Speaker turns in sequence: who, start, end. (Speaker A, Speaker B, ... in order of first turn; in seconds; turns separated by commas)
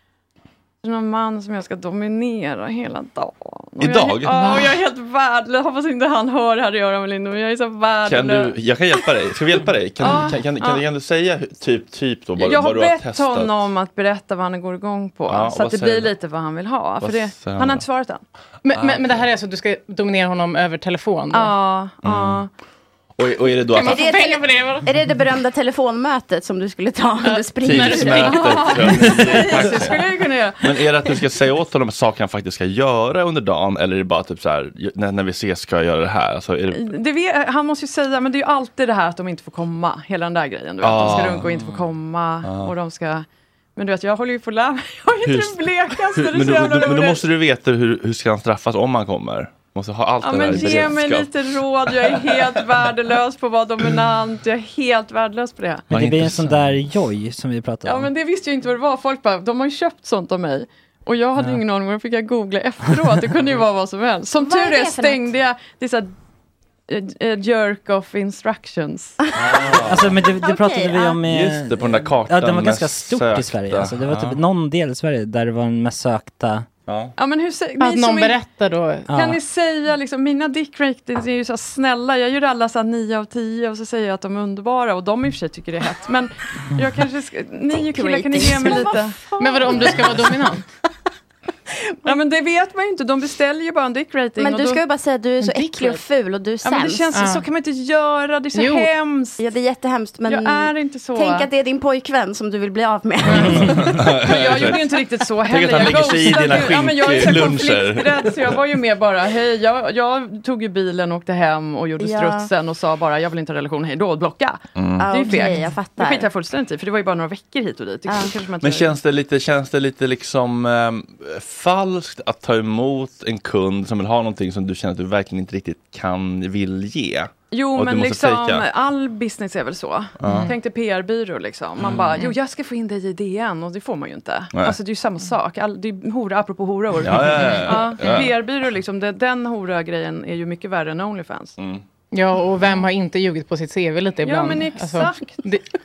Speaker A: 0.8-8.6, Speaker B: 3.8-4.7, Speaker B: 8.1-13.6, Speaker A: 10.0-10.8, Speaker A: 12.4-18.2, Speaker B: 15.3-16.1, Speaker B: 17.0-17.9, Speaker C: 18.6-21.6, Speaker B: 18.7-19.2, Speaker A: 21.3-22.5, Speaker B: 22.0-22.4, Speaker B: 23.2-24.1, Speaker C: 23.7-24.9, Speaker D: 23.8-28.7, Speaker C: 27.2-28.4, Speaker B: 27.6-30.0, Speaker A: 28.2-30.8, Speaker B: 30.6-36.9, Speaker A: 36.7-47.2, Speaker B: 40.8-41.5, Speaker E: 41.4-41.7, Speaker B: 42.4-42.7, Speaker B: 45.2-51.3, Speaker A: 50.2-55.9, Speaker B: 51.9-52.4, Speaker B: 55.9-56.7, Speaker E: 55.9-58.1, Speaker A: 57.8-66.1, Speaker D: 64.4-65.3, Speaker A: 66.9-69.2, Speaker B: 69.3-70.2, Speaker D: 69.4-69.7, Speaker E: 69.8-76.7, Speaker D: 70.3-71.2, Speaker B: 71.3-74.4, Speaker B: 76.9-77.1, Speaker A: 77.2-78.4, Speaker C: 77.8-79.1, Speaker E: 79.1-79.4, Speaker A: 79.1-90.0, Speaker D: 87.7-89.2, Speaker C: 89.4-90.6, Speaker A: 92.1-94.8, Speaker D: 94.4-97.2, Speaker C: 95.4-96.0, Speaker A: 96.6-99.4, Speaker C: 97.1-97.5, Speaker C: 98.5-98.9, Speaker D: 99.4-104.0, Speaker A: 100.3-101.5, Speaker B: 103.5-104.8, Speaker A: 104.1-119.0, Speaker B: 105.5-108.5, Speaker D: 112.0-112.5, Speaker B: 114.8-115.1, Speaker D: 115.0-116.3, Speaker D: 118.1-118.3, Speaker B: 118.6-128.7, Speaker A: 127.5-141.6, Speaker B: 130.2-130.5, Speaker C: 130.2-130.5, Speaker B: 131.8-132.1, Speaker B: 137.0-138.3, Speaker B: 141.6-141.8, Speaker C: 142.1-145.6, Speaker A: 144.2-145.4